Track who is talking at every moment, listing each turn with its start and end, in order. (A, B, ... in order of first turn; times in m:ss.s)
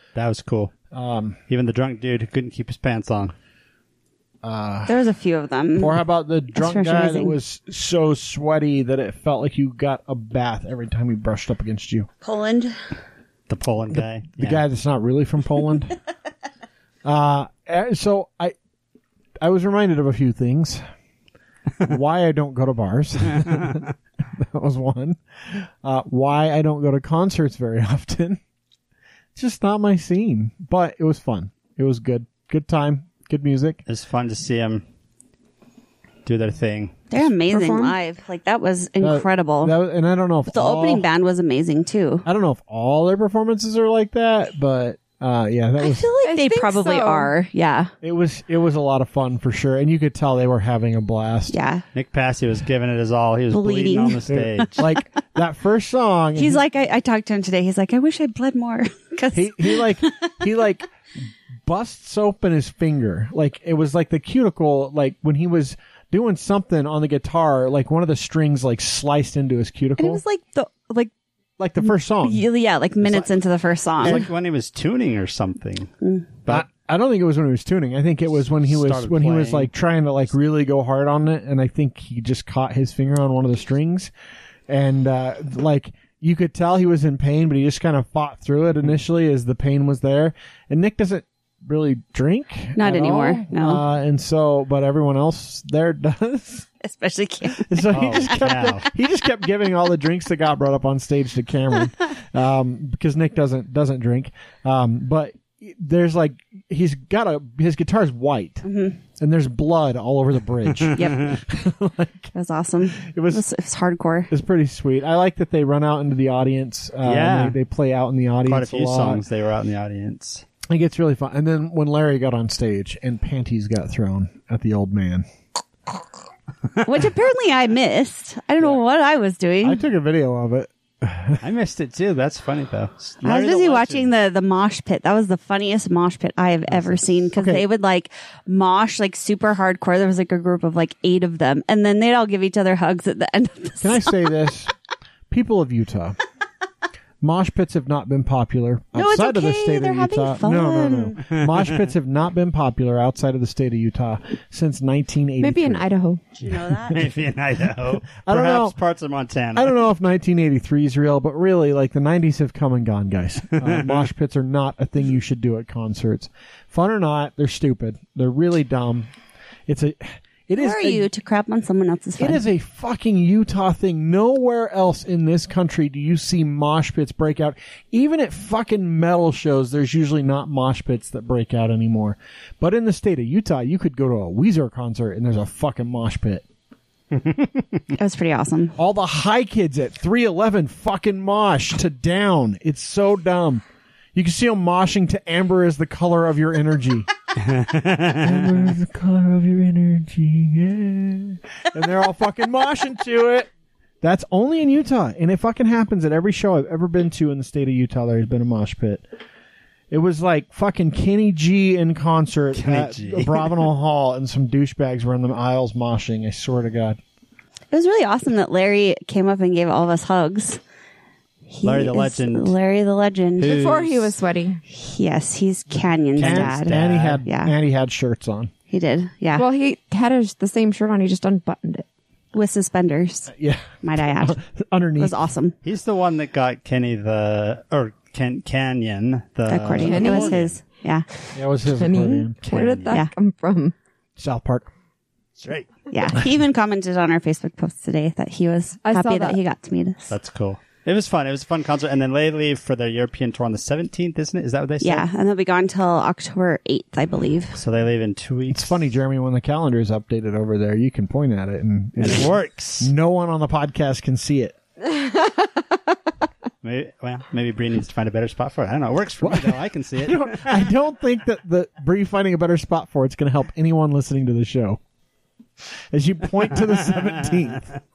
0:00.2-0:00.7 A
0:00.9-0:01.4 B
0:01.5-0:03.3 A
0:04.4-0:05.0 B
0:04.9-0:06.0 C
0:05.8-0:12.1 B
0:06.6-0:07.4 C
0:12.2-0:12.8 C
0:13.5-0:14.6 A
0:13.9-0:16.0 B
0:17.0-0:18.6 B
0:19.4-0:20.8 B
0:21.8-0:28.4 B
0:29.4-0:33.8 B
0:33.9-0:34.8 A
0:36.2-0:37.1 A
0:37.1-0:39.7 C
0:37.5-0:38.0 D
0:39.0-0:41.0 B
0:40.5-0:42.3 C
0:42.2-0:46.1 B
0:45.8-0:47.9 C
0:46.2-0:47.3 D
0:48.0-0:51.6 B
0:51.5-0:51.8 C
0:51.9-0:54.9 A
0:53.5-0:54.8 C
0:54.3-0:56.6 B
0:56.4-1:00.3 C
0:59.3-1:00.9 B
1:01.6-1:10.2 B
1:10.0-1:11.1 C
1:11.6-1:12.5 B
1:11.8-1:14.2 C
1:13.0-1:13.3 B
1:14.0-1:15.9 A
1:16.0-1:16.3 C
1:16.5-1:24.1 B
1:18.6-1:19.7 A
1:24.7-1:36.7 B
1:32.8-1:33.8 C
1:36.8-1:37.7 C
1:37.6-1:52.3 B
1:37.9-1:38.9 A
1:48.6-1:49.0 C
1:50.8-1:51.3 A
1:51.0-1:51.3 C
1:52.3-1:54.3 C
1:52.9-1:53.4 B
1:54.3-1:59.2 B
1:57.0-1:57.6 A
1:58.5-2:00.4 A
2:00.7-2:05.2 B
2:06.8-2:09.8 C
2:09.6-2:11.4 B
2:11.4-2:14.1 A
2:13.2-2:24.3 C
2:16.7-2:17.2 A
2:17.4-2:17.6 B
2:23.8-2:24.7 B
2:25.3-2:26.2 B
2:27.2-2:35.8 B
2:28.9-2:31.2 C
2:31.3-2:31.8 A
2:35.4-2:36.6 D
2:36.4-2:37.0 C
2:36.9-2:39.8 A
2:37.9-2:38.8 B
2:39.6-2:49.1 B
2:43.6-2:44.0 A
2:49.7-2:51.1 B
2:50.6-2:52.4 C
2:52.2-3:06.4 B
3:07.9-3:08.8 C
3:08.8-3:13.6 B
3:14.1-3:17.1 B
3:17.4-3:18.3 A
3:18.2-3:23.5 B
3:24.0-3:29.0 B
3:29.9-3:37.0 B
3:32.6-3:33.6 A
3:37.7-3:40.6 C
3:41.5-3:43.6 C
3:41.6-3:42.5 A
3:43.4-3:44.2 A
3:43.4-3:44.6 D
3:44.7-3:47.5 C
3:46.1-3:47.2 A
3:46.2-3:48.5 B
3:48.7-3:49.4 C
3:49.4-3:51.9 D
3:52.3-3:54.4 C
3:53.3-3:55.2 B
3:55.0-3:55.5 C
3:55.6-4:00.6 A
3:59.5-4:01.1 C
3:59.8-4:00.4 D
4:01.3-4:02.7 B
4:01.7-4:03.8 D
4:02.4-4:03.0 A
4:04.2-4:04.7 B
4:05.4-4:06.2 A
4:05.9-4:10.1 C
4:08.8-4:09.4 D
4:10.1-4:15.1 A
4:14.8-4:17.6 C
4:17.6-4:18.9 A
4:18.5-4:24.6 B
4:22.0-4:22.9 A
4:26.6-4:30.7 A
4:29.2-4:34.8 B
4:35.8-4:37.7 B